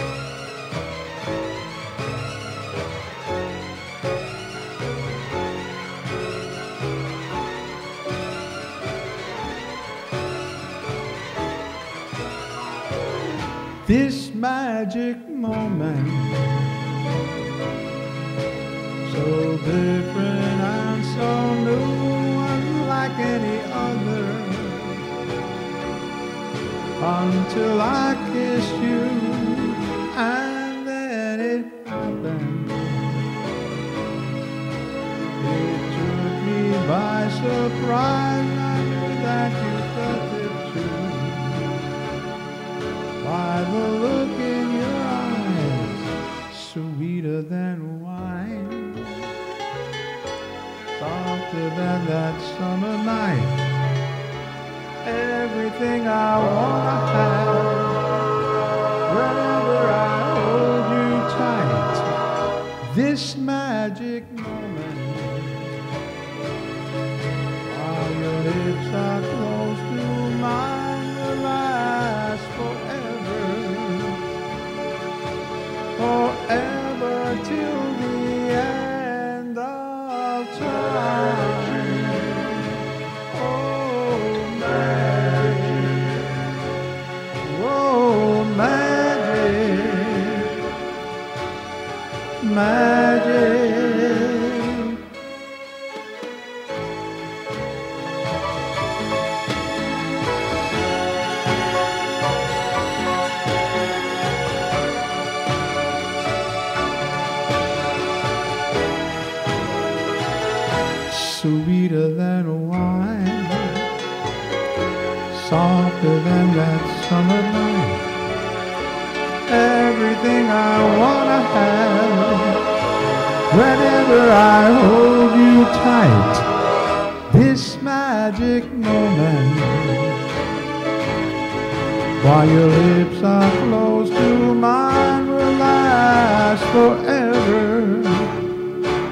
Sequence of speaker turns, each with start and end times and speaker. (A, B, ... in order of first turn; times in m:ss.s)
0:13.8-0:16.7 A
0:19.0-0:25.1 A
0:27.0-0:33.3 A
0:35.4-0:41.7 A
0:43.2-0:49.3 A
0:50.9-0:53.7 A
0:55.0-0:58.0 A
0:59.1-1:02.1 A
1:02.8-1:05.7 A
1:07.6-1:14.2 A
1:16.0-1:22.8 A
1:23.3-1:26.4 A
1:27.4-1:30.6 A
1:32.4-1:35.0 A
1:51.1-1:53.9 A
1:55.3-1:58.1 A
1:59.5-2:02.6 A
2:03.5-2:06.5 A
2:07.3-2:10.2 A
2:12.2-2:18.3 A